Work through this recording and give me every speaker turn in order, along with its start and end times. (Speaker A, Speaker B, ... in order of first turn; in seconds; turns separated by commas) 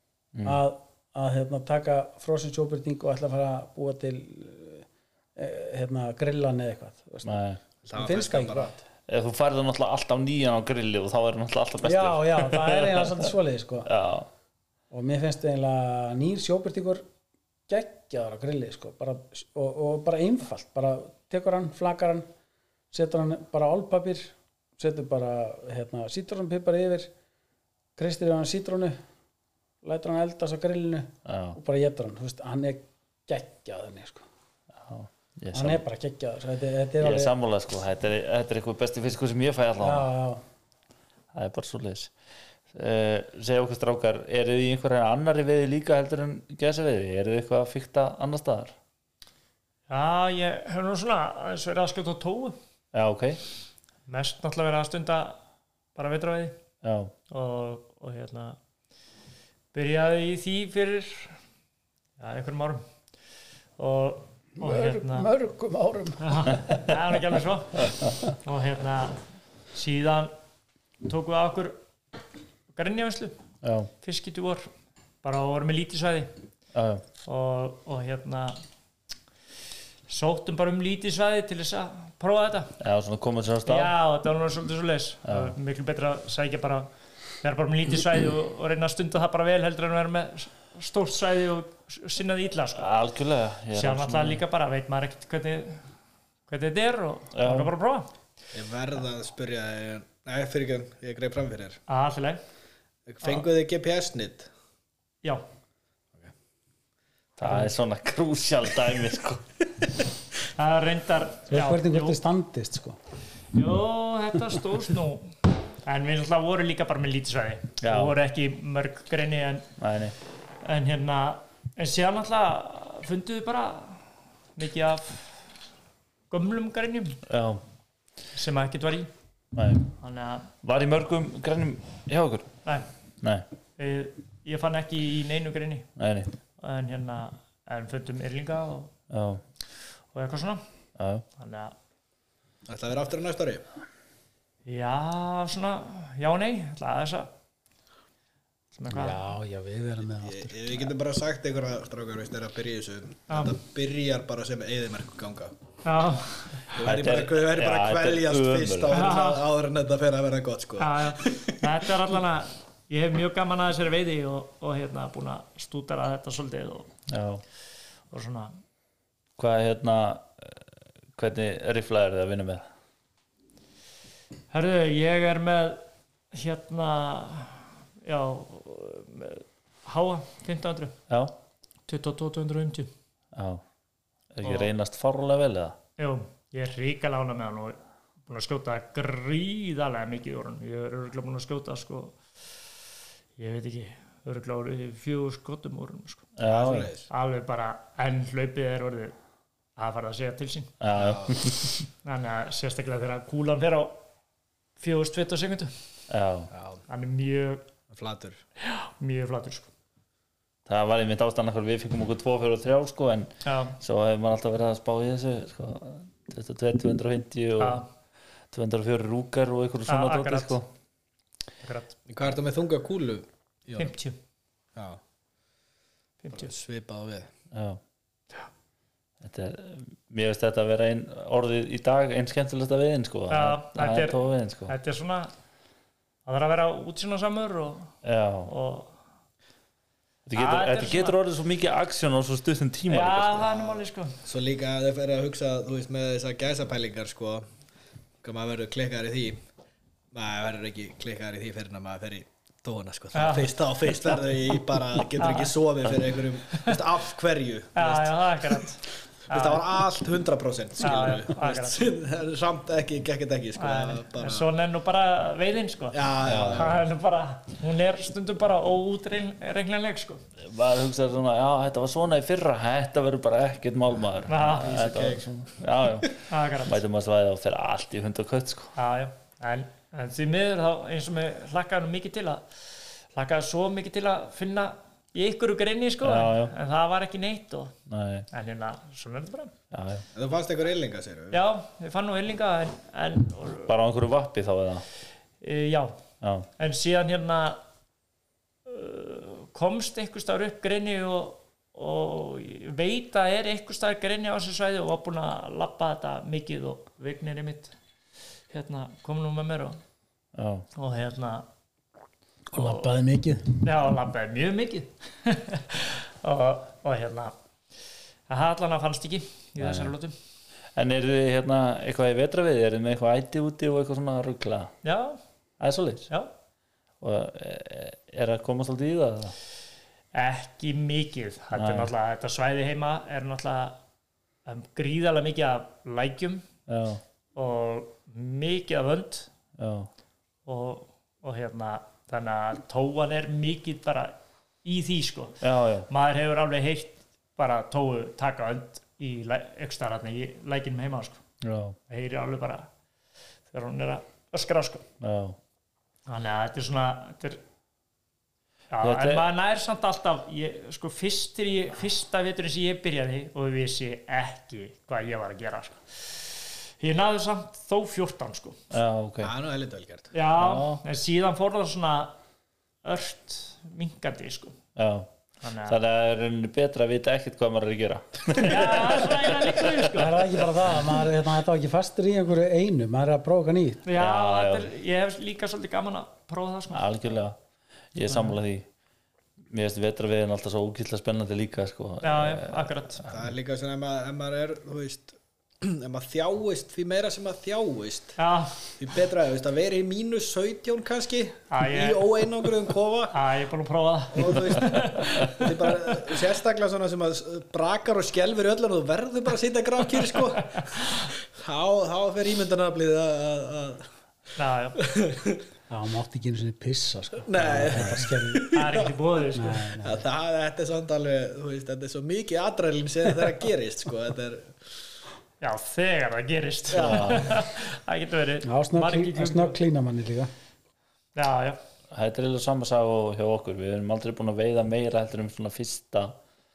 Speaker A: 0.3-0.6, Speaker B: 0.4-7.4, Speaker A: 7.2-7.6, Speaker C: 7.8-8.7, Speaker B: 7.9-8.8, Speaker A: 9.1-13.3, Speaker B: 11.8-13.9, Speaker A: 13.8-14.3, Speaker B: 14.9-17.0, Speaker B: 17.7-22.3, Speaker B: 22.9-27.1, Speaker B: 28.0-29.0, Speaker B: 29.8-34.2, Speaker A: 31.2-31.6, Speaker A: 34.8-35.8, Speaker B: 35.5-37.3, Speaker A: 37.0-40.1, Speaker B: 39.8-40.4, Speaker A: 41.3-42.1, Speaker A: 42.7-48.7, Speaker D: 49.9-52.5, Speaker A: 52.9-53.4, Speaker D: 54.1-55.4, Speaker D: 56.0-56.5, Speaker A: 56.8-57.1, Speaker D: 57.3-58.6, Speaker D: 59.7-61.4, Speaker D: 62.2-62.8, Speaker D: 63.8-65.3, Speaker B: 64.6-66.9, Speaker D: 66.2-70.3, Speaker D: 71.0-71.8, Speaker D: 72.7-73.3, Speaker A: 73.6-73.9, Speaker D: 74.0-74.7, Speaker D: 75.2-76.3, Speaker A: 76.7-77.0, Speaker D: 77.2-78.6, Speaker D: 80.1-82.7, Speaker A: 82.8-83.9, Speaker D: 83.7-86.9, Speaker A: 85.2-85.5, Speaker D: 87.4-92.9, Speaker A: 92.7-94.4, Speaker D: 93.7-95.8, Speaker D: 96.5-98.1, Speaker A: 97.3-97.7, Speaker C: 98.5-101.8, Speaker D: 101.9-102.4, Speaker C: 103.1-104.5, Speaker A: 107.4-109.5, Speaker D: 110.5-112.2, Speaker B: 111.5-113.0, Speaker D: 113.5-119.7, Speaker A: 117.8-118.2, Speaker A: 119.8-120.1, Speaker D: 120.6-125.4, Speaker D: 126.3-127.2, Speaker A: 127.2-127.6, Speaker D: 128.3-129.1, Speaker A: 129.5-129.9, Speaker D: 130.0-130.5, Speaker A: 130.6-132.5, Speaker D: 133.8-135.9, Speaker A: 136.0-136.3, Speaker D: 136.6-138.9, Speaker A: 139.1-139.4, Speaker D: 140.1-140.6, Speaker A: 141.0-141.2, Speaker D: 141.4-141.7, Speaker C: 142.7-143.6, Speaker D: 144.7-147.3, Speaker D: 148.7-149.3, Speaker B: 148.9-150.9, Speaker C: 150.2-155.6, Speaker D: 153.3-153.5, Speaker D: 155.8-156.8, Speaker C: 156.7-161.6, Speaker A: 156.8-159.1, Speaker D: 158.9-159.4, Speaker D: 160.8-166.9, Speaker A: 167.1-167.4, Speaker D: 168.1-168.5, Speaker A: 169.4-170.6, Speaker A: 171.2-172.7, Speaker D: 174.5-180.9, Speaker A: 181.1-181.3, Speaker D: 181.9-182.9, Speaker A: 183.3-183.6, Speaker A: 184.3-185.8, Speaker D: 184.4-184.7, Speaker D: 186.0-192.2, Speaker D: 193.4-196.3, Speaker A: 196.4-196.9, Speaker C: 196.4-197.1, Speaker D: 197.1-199.1, Speaker D: 199.8-200.7, Speaker A: 200.8-201.8, Speaker C: 200.9-201.4, Speaker D: 202.0-204.0, Speaker D: 204.8-205.7, Speaker A: 206.1-206.5, Speaker C: 206.5-206.8, Speaker D: 206.9-207.6, Speaker C: 207.9-208.4, Speaker D: 208.6-209.7, Speaker A: 210.7-217.8, Speaker D: 213.4-213.8, Speaker D: 217.6-217.9, Speaker A: 218.5-220.7, Speaker D: 219.9-220.6, Speaker D: 221.6-221.9, Speaker C: 222.1-223.9, Speaker D: 223.8-224.2, Speaker D: 226.2-226.5, Speaker C: 226.3-227.3, Speaker A: 227.5-227.8, Speaker A: 229.2-234.7, Speaker D: 233.3-235.3, Speaker D: 236.2-237.9, Speaker A: 238.0-238.5, Speaker D: 238.5-238.9, Speaker A: 240.3-243.5, Speaker D: 240.3-241.2, Speaker D: 242.9-244.2, Speaker C: 243.5-247.4, Speaker C: 248.2-249.4, Speaker C: 250.1-258.6, Speaker D: 253.1-254.2, Speaker D: 255.2-255.5, Speaker D: 256.5-256.8, Speaker D: 257.8-259.8, Speaker C: 259.3-264.4, Speaker D: 260.8-261.9, Speaker D: 263.6-270.2, Speaker C: 265.9-266.8, Speaker A: 266.2-266.8, Speaker A: 270.4-278.7, Speaker D: 274.3-274.8, Speaker C: 274.4-275.2, Speaker D: 276.3-276.8, Speaker D: 278.8-282.5, Speaker D: 283.1-287.7, Speaker A: 286.0-286.5, Speaker A: 287.9-288.3, Speaker D: 288.3-289.5, Speaker A: 289.7-290.0, Speaker C: 290.1-291.4, Speaker D: 291.3-293.7, Speaker A: 293.7-294.8, Speaker D: 295.4-295.9, Speaker A: 296.2-296.5, Speaker D: 296.6-297.6, Speaker D: 298.6-307.7, Speaker D: 308.5-309.8, Speaker A: 310.3-310.7, Speaker D: 310.8-311.4, Speaker B: 312.5-313.6, Speaker D: 313.6-317.3, Speaker D: 318.3-320.1, Speaker A: 319.6-319.9, Speaker A: 320.8-324.7, Speaker D: 324.8-325.2, Speaker A: 325.6-326.1, Speaker A: 327.0-329.3, Speaker D: 330.1-333.8, Speaker A: 331.5-331.9, Speaker D: 334.4-336.4, Speaker A: 336.7-337.0, Speaker D: 337.3-339.3, Speaker A: 339.6-339.9, Speaker D: 340.4-345.4, Speaker A: 345.4-345.9, Speaker D: 345.9-351.2, Speaker A: 351.4-351.8, Speaker D: 351.9-352.7, Speaker D: 353.5-354.8, Speaker A: 355.0-355.4, Speaker D: 356.1-357.4, Speaker D: 358.7-368.6, Speaker A: 358.8-359.2, Speaker A: 368.7-369.3, Speaker C: 369.2-370.1, Speaker D: 370.1-372.1, Speaker A: 370.4-370.8, Speaker D: 372.8-374.6, Speaker A: 374.8-375.1, Speaker D: 375.4-375.8, Speaker A: 375.6-380.0, Speaker D: 378.3-380.4, Speaker B: 379.9-383.9, Speaker D: 383.9-386.9, Speaker A: 383.9-384.7, Speaker A: 386.7-387.4, Speaker A: 387.9-388.6, Speaker D: 388.1-388.3, Speaker A: 389.5-393.1, Speaker D: 392.0-393.0, Speaker C: 393.1-398.1, Speaker D: 398.2-398.7, Speaker C: 398.8-403.1, Speaker D: 401.5-402.1, Speaker D: 403.1-406.0, Speaker C: 404.1-413.9, Speaker D: 414.4-414.8, Speaker C: 414.8-415.4, Speaker B: 415.7-418.5, Speaker C: 417.2-418.9, Speaker D: 418.5-419.7, Speaker B: 419.3-420.0, Speaker C: 419.8-424.5, Speaker D: 425.4-429.6, Speaker C: 426.7-427.3, Speaker A: 426.8-427.3, Speaker B: 428.4-430.3, Speaker D: 431.1-431.6, Speaker A: 431.9-436.2